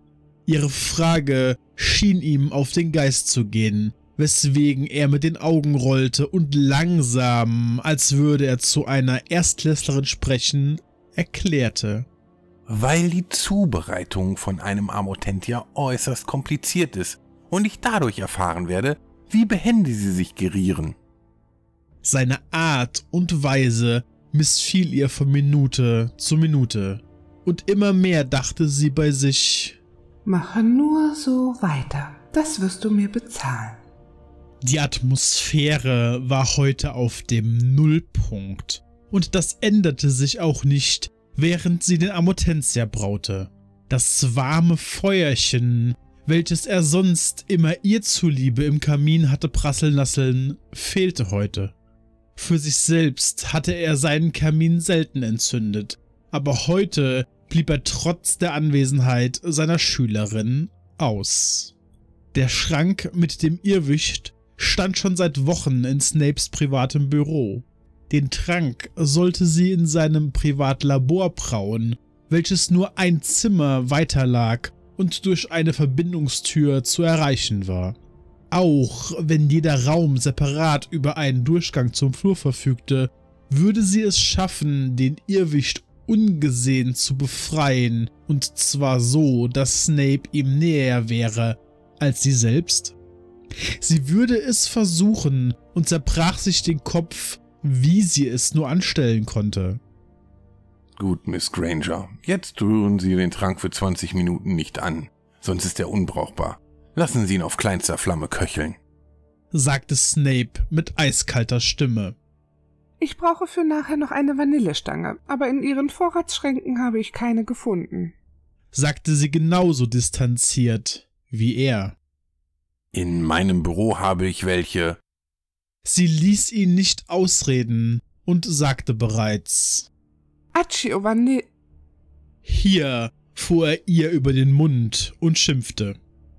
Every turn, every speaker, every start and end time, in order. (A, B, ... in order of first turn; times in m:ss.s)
0:00.4-0:12.1 A
0:12.7-0:21.0 B
0:22.0-0:29.8 A
0:30.2-0:33.8 C
0:34.6-0:51.7 A
0:52.4-1:01.7 A
1:02.3-1:18.0 A
1:18.5-1:32.9 A
1:33.5-1:39.8 A
1:41.0-1:48.8 B
1:49.5-1:52.2 A
1:53.0-1:58.1 C
1:58.7-2:02.0 A
2:02.9-2:05.0 B
2:05.8-2:09.9 A
2:10.5-2:11.5 C
2:12.4-2:16.0 A